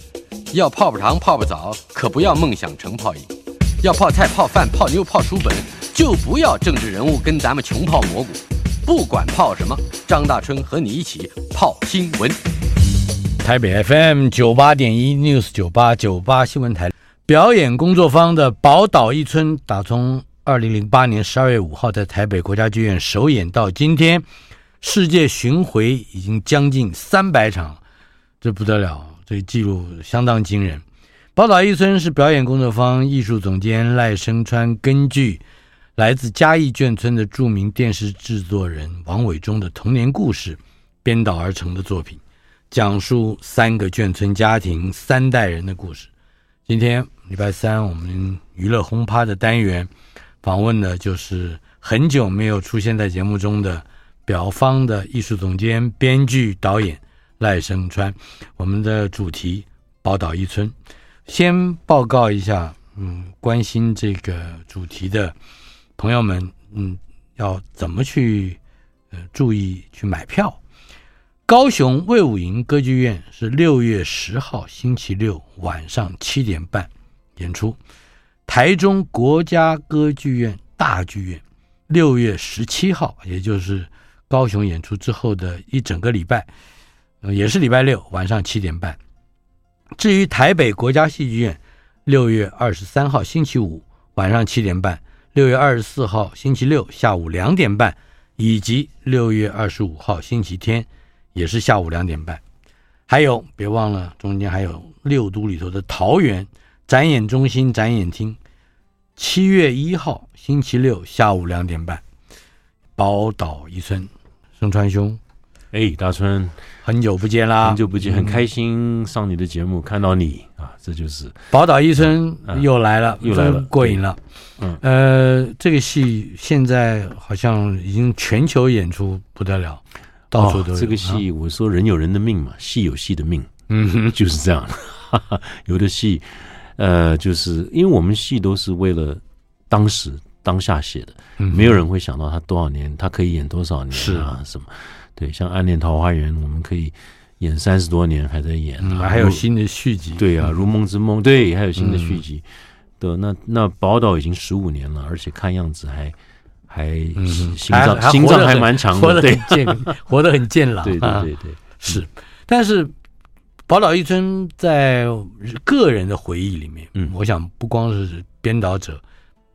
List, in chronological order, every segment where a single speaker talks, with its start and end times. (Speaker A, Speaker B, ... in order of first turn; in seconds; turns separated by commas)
Speaker A: 0.5-3.3, Speaker A: 3.8-12.4, Speaker B: 13.4-24.2, Speaker B: 24.8-27.8, Speaker B: 28.4-30.8, Speaker B: 31.4-35.4, Speaker B: 36.0-46.1, Speaker B: 46.7-49.9, Speaker B: 50.4-60.7, Speaker B: 61.3-65.3, Speaker B: 66.0-68.6, Speaker B: 69.2-70.6, Speaker B: 71.5-77.8, Speaker B: 78.5-86.5, Speaker B: 87.2-89.0, Speaker B: 90.0-102.4, Speaker B: 103.1-108.4, Speaker B: 109.2-112.0, Speaker B: 113.0-115.2, Speaker C: 115.7-116.6, Speaker B: 116.8-118.4, Speaker C: 117.6-121.5, Speaker B: 121.5-124.2, Speaker C: 123.2-124.0, Speaker B: 124.8-131.2, Speaker C: 130.3-133.5, Speaker B: 133.7-134.2, Speaker C: 134.1-149.4, Speaker B: 141.4-141.8, Speaker B: 143.9-144.3, Speaker B: 148.8-150.3, Speaker C: 150.2-152.4, Speaker B: 151.8-152.2, Speaker C: 153.0-156.1, Speaker C: 156.7-159.9, Speaker B: 157.2-162.9, Speaker C: 160.8-162.0, Speaker B: 163.7-169.0